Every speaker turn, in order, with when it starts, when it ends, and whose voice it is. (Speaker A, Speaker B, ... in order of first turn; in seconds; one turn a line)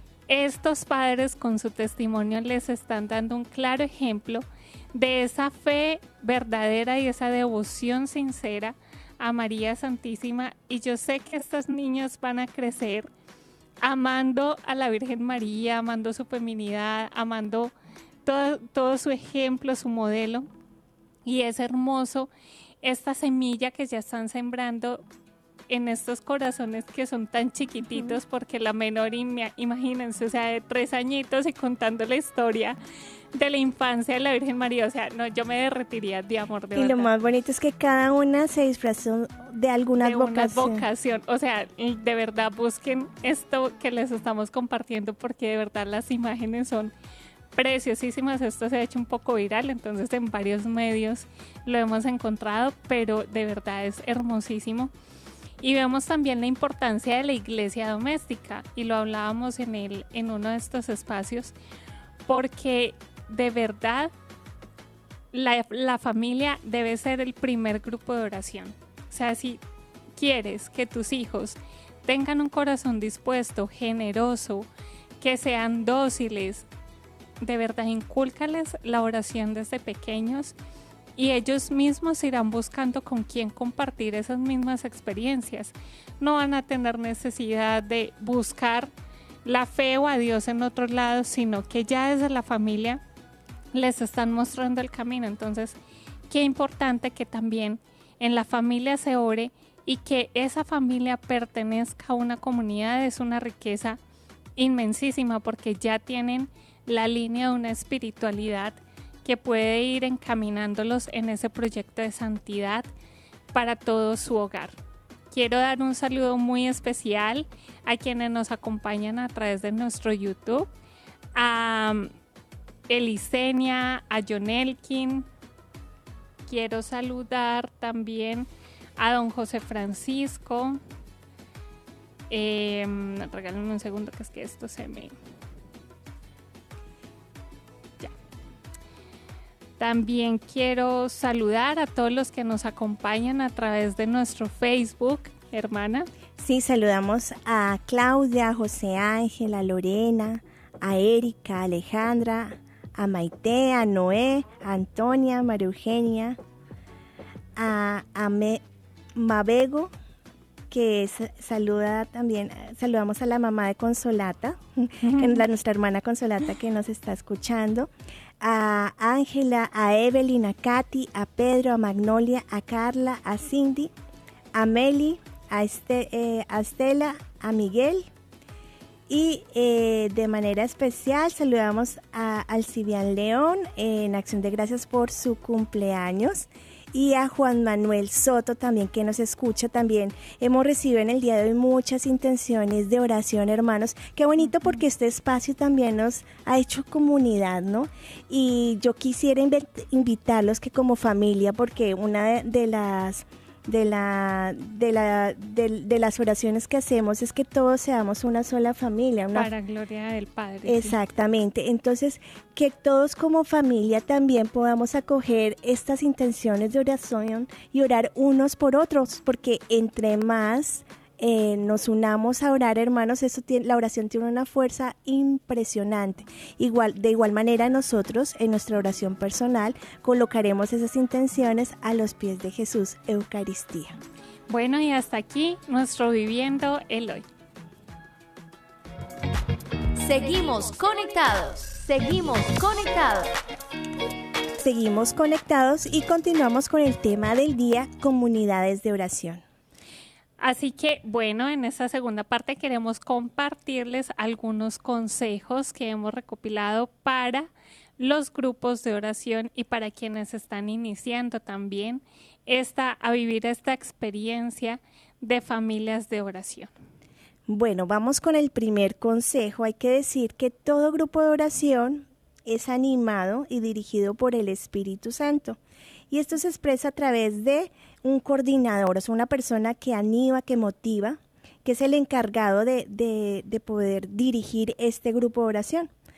Speaker A: 0.3-13.1
Speaker A: 13.8-17.7
Speaker A: 18.2-20.5
Speaker A: 21.2-22.3
Speaker A: 22.8-25.0
Speaker A: 25.7-32.8
Speaker A: 33.3-37.1
Speaker B: 36.8-40.9
Speaker A: 40.0-46.9
Speaker A: 47.5-54.9
Speaker A: 55.6-61.5
Speaker A: 62.3-64.1
Speaker A: 65.3-69.6
Speaker A: 70.2-74.7
Speaker A: 75.2-76.7
Speaker A: 77.4-80.5
Speaker A: 81.2-88.9
Speaker A: 89.5-93.0
Speaker A: 93.7-95.8
Speaker A: 96.3-104.0
Speaker A: 104.6-112.9
Speaker A: 113.5-114.8
Speaker A: 115.3-120.7
Speaker A: 121.4-122.1
Speaker A: 122.9-125.3
Speaker A: 126.5-128.5
Speaker A: 129.0-130.8
Speaker A: 132.3-135.1
Speaker A: 139.8-146.1
Speaker B: 146.4-156.4
Speaker B: 157.6-158.6
Speaker B: 159.2-159.9
Speaker B: 160.7-167.9
Speaker B: 168.4-173.9
Speaker B: 174.5-178.1
Speaker B: 179.1-209.5
Speaker A: 209.3-211.0
Speaker B: 210.6-234.0
Speaker A: 234.5-237.2
Speaker C: 240.0-243.3
Speaker B: 244.6-249.4
Speaker A: 250.4-266.7
Speaker B: 267.5-275.6
Speaker B: 276.1-285.9